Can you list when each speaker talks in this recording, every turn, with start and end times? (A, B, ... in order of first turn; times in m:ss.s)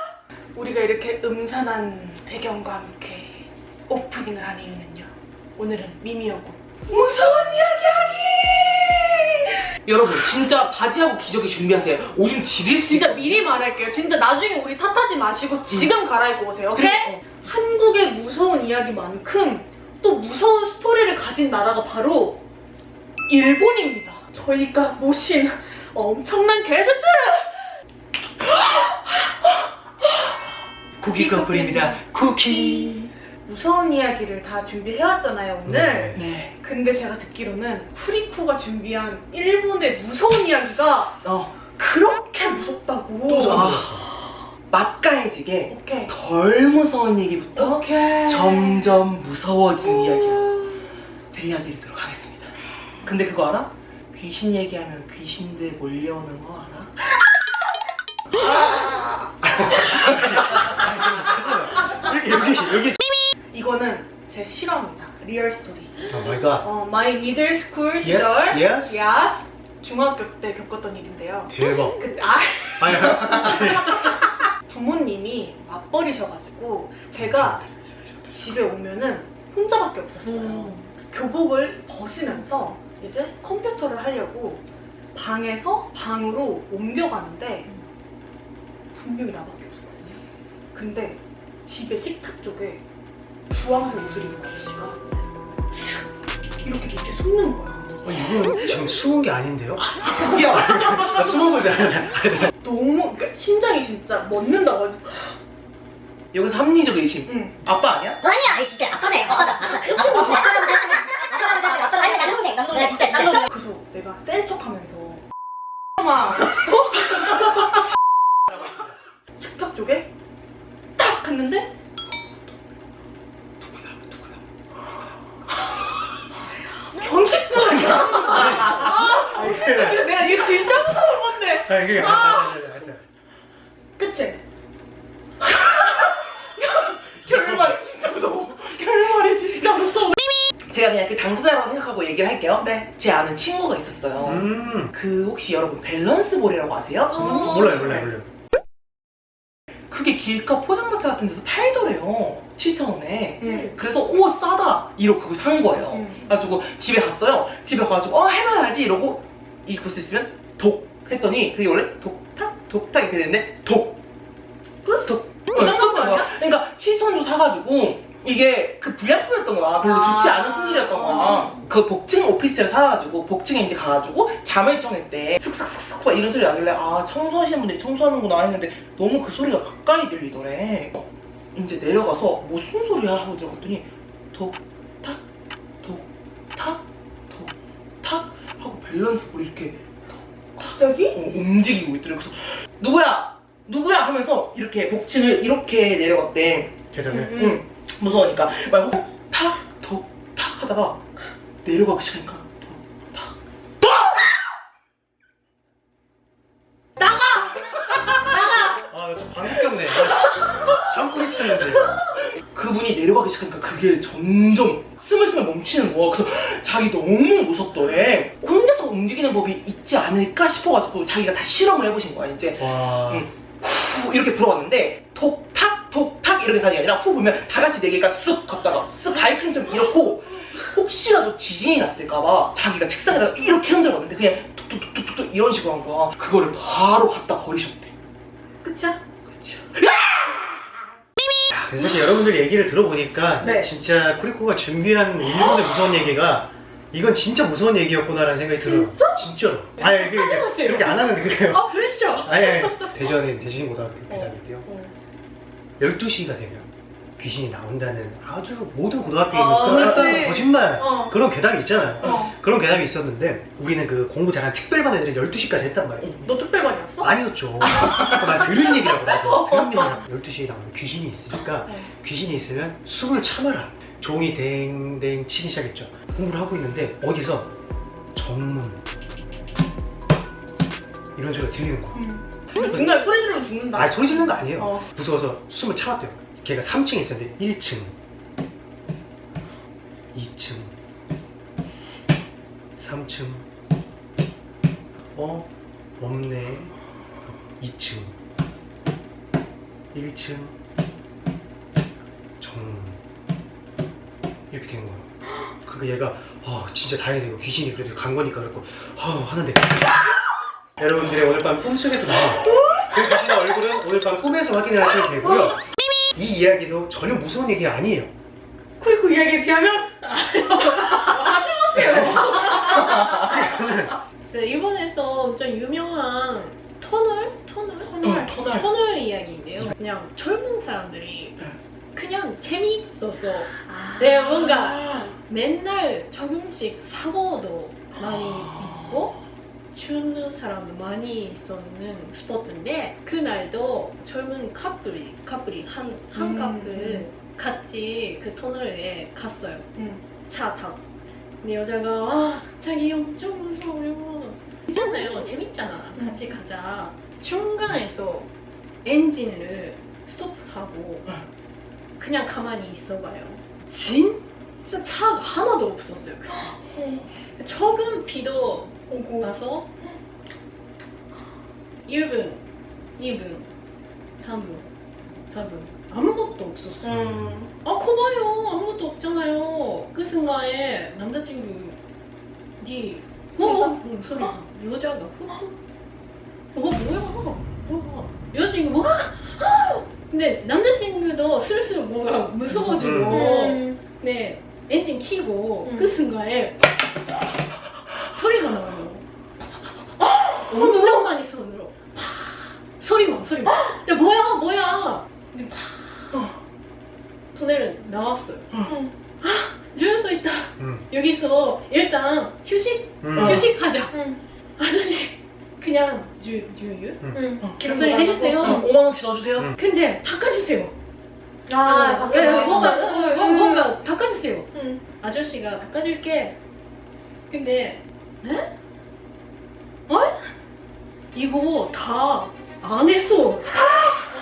0:00.5-0:09.1 A
0:06.9-0:08.8 B
0:09.8-0:13.5 B
0:12.9-0:22.4 A
0:16.7-0:17.2 B
0:23.3-0:27.8 A
0:28.4-0:29.7 A
0:31.0-0:32.9 C
0:31.0-0:41.2 A
0:35.6-0:36.2 C
0:36.1-0:36.5 B
0:41.2-0:41.5 B
0:41.7-0:43.7 A
0:43.3-0:44.0 B
0:43.4-0:44.0 C
0:44.7-0:50.7 B
0:45.7-0:46.1 A
0:47.6-0:49.0 A
0:51.3-0:56.9 B
0:59.4-1:03.0 C
1:03.5-1:06.1 A
1:06.1-1:06.7 C
1:06.6-1:17.6 A
1:08.0-1:09.1 C
1:11.5-1:12.0 C
1:12.8-1:14.1 C
1:17.2-1:18.4 C
1:18.3-1:27.7 A
1:20.2-1:20.9 D
1:28.9-1:30.2 A
1:30.7-1:32.8 A
1:33.5-1:35.0 A
1:35.7-1:36.0 A
1:36.6-1:38.0 A
1:38.0-1:42.5 C
1:39.8-1:41.4 A
1:40.0-1:41.4 B
1:42.6-1:45.4 A
1:46.3-1:48.2 B
1:47.2-1:47.6 A
1:48.2-1:53.4 E
1:49.5-1:50.9 A
1:52.1-1:55.2 A
1:56.0-1:57.7 A
1:59.4-2:00.1 A
2:01.0-2:01.7 A
2:06.9-2:12.6 A
2:07.8-2:08.4 B
2:08.3-2:13.0 C
2:14.0-2:14.4 A
2:16.6-2:20.1 B
2:17.2-2:17.8 C
2:20.7-2:28.1 B
2:22.6-2:22.9 A
2:24.2-2:24.9 C
2:27.1-2:27.8 D
2:27.1-2:28.3 C
2:29.9-2:44.0 B
2:33.4-2:33.7 A
2:33.4-2:33.8 D
2:35.9-2:36.2 A
2:44.8-2:46.3 A
2:45.0-3:05.2 B
2:49.8-2:51.5 A
3:05.8-3:21.0 B
3:10.6-3:11.2 A
3:16.9-3:17.4 C
3:17.1-3:17.6 A
3:21.6-3:23.3 B
3:28.6-3:31.9 C
3:32.4-3:57.9 B
3:42.6-3:43.3 C
3:58.6-3:59.0 A
3:59.3-4:00.4 B
4:01.5-4:14.7 C
4:03.4-4:03.7 A
4:08.6-4:13.1 D
4:14.1-4:14.9 A
4:15.8-4:26.1 C
4:19.3-4:21.1 A
4:19.6-4:20.4 B
4:22.0-4:22.3 A
4:26.1-4:30.0 A
4:27.0-4:37.5 C
4:38.1-4:38.8 C
4:41.2-4:42.0 C
4:41.9-4:44.8 A
4:42.5-4:42.9 C
4:43.7-4:47.9 C
4:50.1-4:50.8 C
4:52.8-4:53.5 C
4:55.1-4:56.7 C
4:57.3-4:58.2 C
4:59.9-5:00.6 C
5:02.4-5:03.0 C
5:04.5-5:09.8 C
5:10.8-5:18.1 C
5:18.8-5:23.0 A
5:20.8-5:22.6 D
5:22.7-5:23.2 B
5:23.0-5:24.0 C
5:23.1-5:23.5 D
5:24.3-5:31.4 D
5:27.8-5:28.3 A
5:28.0-5:28.7 B
5:31.9-5:39.2 D
5:33.9-5:34.4 A
5:38.0-5:39.1 B
5:39.7-5:49.7 D
5:46.1-5:47.1 A
5:49.8-5:50.0 A
5:50.3-5:50.8 D
5:51.4-5:58.3 D
5:56.0-5:56.4 A
5:58.8-6:01.1 D
6:02.0-6:06.6 D
6:06.3-6:07.1 A
6:07.4-6:09.7 D
6:08.9-6:09.3 A
6:11.8-6:12.4 D
6:13.0-6:13.5 D
6:14.2-6:14.7 D
6:15.3-6:16.9 D
6:16.8-6:17.5 A
6:16.9-6:17.3 C
6:17.6-6:21.8 D
6:22.6-6:25.6 D
6:23.4-6:24.3 A
6:26.5-6:36.6 D
6:32.5-6:33.3 C
6:33.0-6:33.8 A
6:35.6-6:35.9 A
6:38.0-6:39.0 D
6:40.0-6:41.1 A
6:40.5-6:46.2 D
6:47.3-6:48.6 D
6:48.7-6:48.9 A
6:49.2-6:54.0 D
6:50.6-6:50.9 C
6:53.0-6:53.5 C
6:53.2-6:53.5 B
6:53.9-6:54.2 A
6:54.6-6:58.7 D
6:57.1-6:57.5 A
6:57.4-6:59.5 B
6:58.4-6:58.7 A
6:59.6-7:00.7 D
7:01.5-7:03.7 A
7:01.6-7:06.4 D
7:02.2-7:02.7 B
7:04.5-7:04.8 A
7:07.3-7:08.5 D
7:09.9-7:10.2 D
7:11.1-7:13.6 D